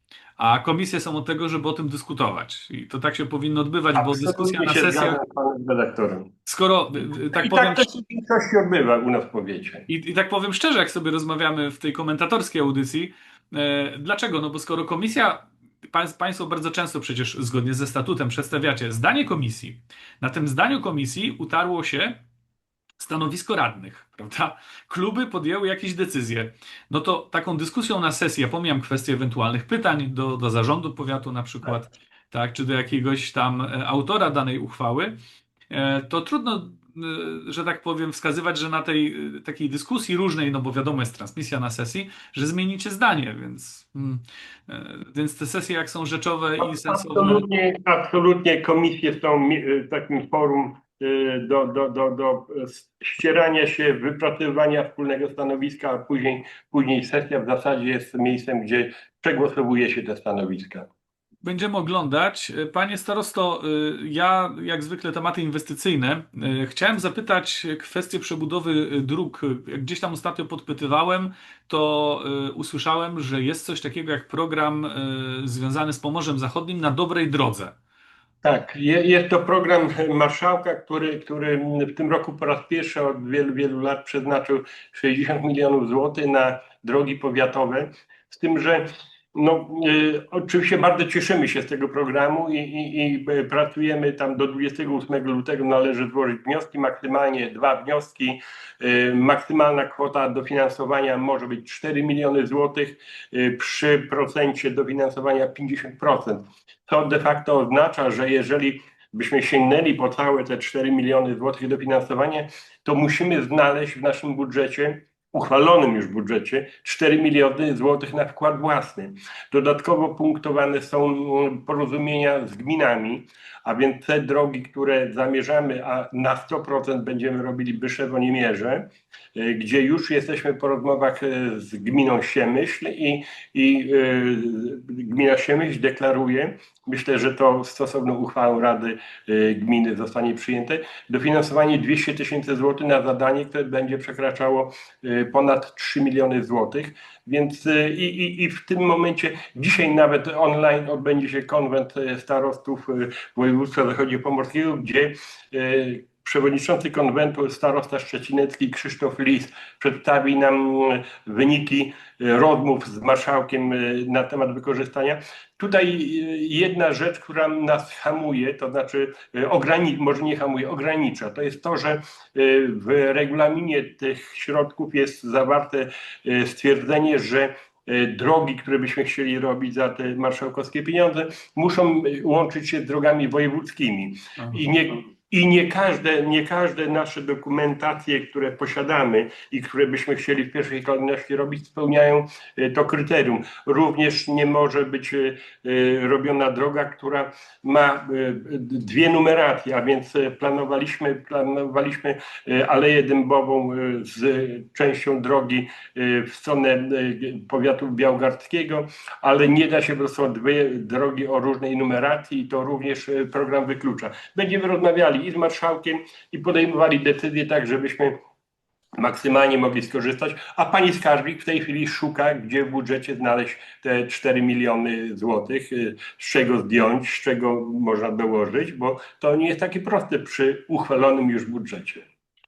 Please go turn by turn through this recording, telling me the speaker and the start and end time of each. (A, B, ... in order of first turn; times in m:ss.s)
0:00.4-0:05.2 A
0:04.0-0:06.3 B
0:06.5-0:07.9 A
0:07.3-0:09.9 B
0:09.9-0:22.2 A
0:23.0-0:35.2 A
0:35.7-0:47.5 A
0:46.6-1:00.9 B
1:01.4-1:17.8 A
1:18.4-3:38.2 B
3:04.4-3:04.6 A
3:39.0-3:52.0 B